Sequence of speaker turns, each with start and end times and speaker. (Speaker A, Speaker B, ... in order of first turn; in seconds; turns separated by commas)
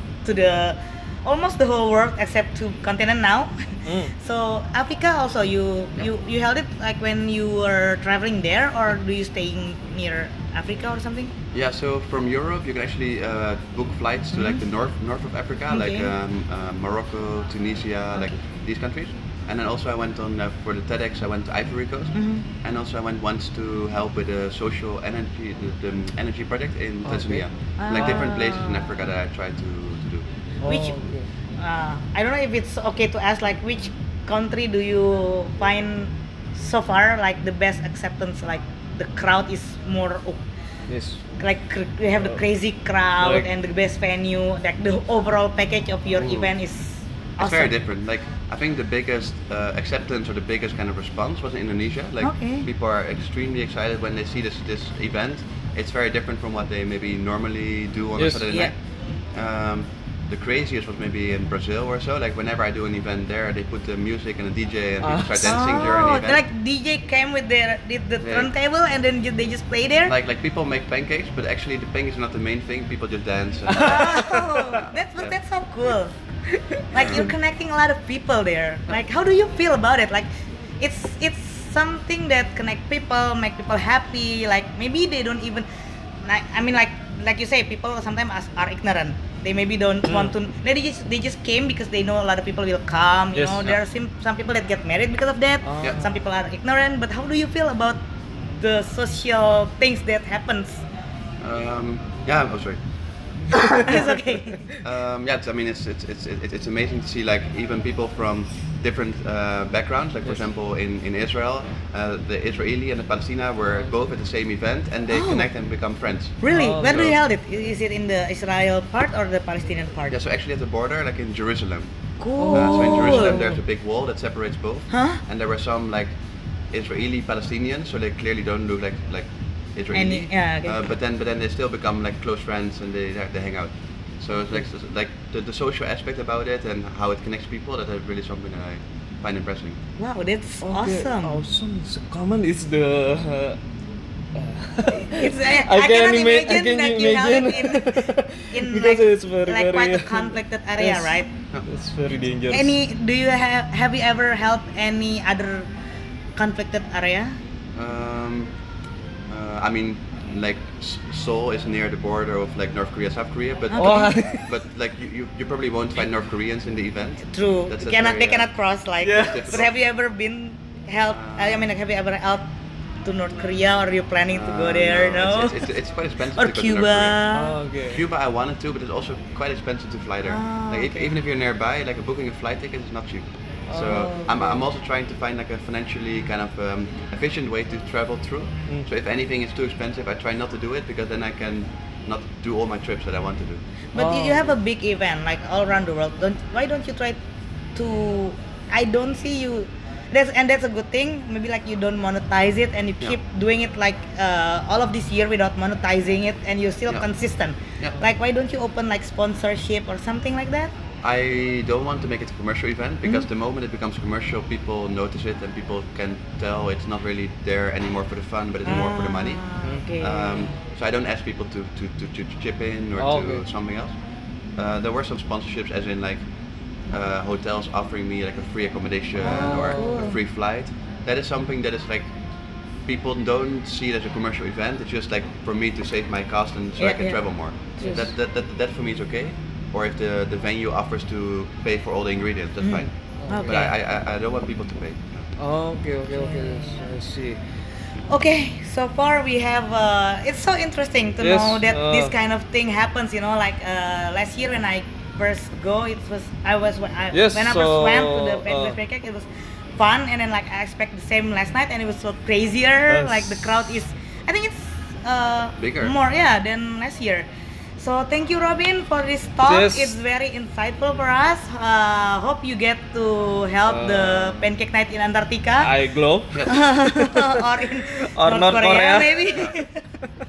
Speaker A: 0.2-11.3, Speaker B: 3.9-4.1, Speaker C: 11.5-30.3, Speaker A: 14.3-14.6, Speaker A: 15.7-16.1, Speaker A: 22.1-22.4, Speaker B: 27.0-28.1, Speaker A: 27.8-28.9, Speaker B: 30.6-31.3, Speaker A: 30.6-31.0, Speaker A: 31.6-40.4, Speaker B: 40.9-41.2, Speaker A: 41.4-47.7, Speaker B: 43.2-43.5, Speaker C: 46.2-46.5, Speaker C: 47.4-58.8, Speaker A: 52.2-52.6, Speaker B: 58.2-58.5, Speaker C: 59.3-66.4, Speaker B: 65.0-65.6, Speaker A: 65.4-70.1, Speaker C: 68.2-68.5, Speaker C: 70.0-75.3, Speaker A: 73.7-76.1, Speaker B: 73.9-74.8, Speaker A: 76.9-80.3, Speaker C: 76.9-77.3, Speaker A: 80.8-85.7, Speaker A: 86.2-98.0, Speaker B: 90.1-90.3, Speaker B: 93.3-93.7, Speaker B: 95.6-96.1, Speaker A: 98.6-100.8, Speaker C: 101.4-102.8, Speaker B: 103.6-104.0, Speaker A: 103.7-104.6, Speaker C: 104.8-116.3, Speaker A: 115.1-115.5, Speaker A: 116.4-120.2, Speaker B: 116.5-117.2, Speaker C: 120.1-121.9, Speaker A: 122.2-123.6, Speaker B: 122.4-123.5, Speaker C: 122.5-126.1, Speaker A: 124.9-125.2, Speaker C: 126.7-139.8, Speaker A: 129.9-130.8, Speaker A: 140.0-141.4, Speaker B: 140.6-143.6, Speaker B: 144.3-151.1, Speaker A: 144.9-151.3, Speaker B: 151.7-152.7, Speaker A: 152.5-155.7, Speaker A: 156.4-157.4, Speaker C: 157.7-158.5, Speaker C: 159.3-168.5, Speaker A: 163.7-164.1, Speaker B: 163.8-164.5, Speaker A: 167.3-172.4, Speaker B: 169.0-169.6, Speaker C: 169.2-169.7, Speaker C: 171.1-171.7, Speaker A: 173.0-175.6, Speaker C: 174.3-177.2, Speaker A: 176.3-177.5, Speaker B: 177.3-178.0, Speaker C: 177.9-193.6, Speaker A: 180.2-181.1, Speaker B: 183.7-184.6, Speaker A: 193.9-197.2, Speaker B: 193.9-194.5, Speaker A: 197.8-210.7, Speaker C: 211.0-223.9, Speaker A: 218.6-220.6, Speaker B: 223.0-223.4, Speaker C: 224.5-226.2, Speaker C: 226.9-232.1, Speaker A: 229.2-230.2, Speaker B: 229.2-230.1, Speaker C: 232.8-242.9, Speaker A: 236.8-237.2, Speaker A: 237.8-238.1, Speaker B: 237.8-238.1, Speaker A: 242.6-243.7, Speaker B: 243.2-243.6, Speaker C: 243.4-245.3, Speaker B: 245.4-247.4, Speaker A: 246.2-246.8, Speaker A: 248.1-259.2, Speaker B: 251.2-252.1, Speaker B: 257.1-258.8, Speaker A: 259.8-275.7, Speaker B: 262.9-263.5, Speaker C: 265.6-265.9, Speaker B: 269.4-270.0, Speaker B: 273.6-274.5, Speaker B: 275.6-279.5, Speaker C: 276.3-276.6, Speaker A: 276.5-279.8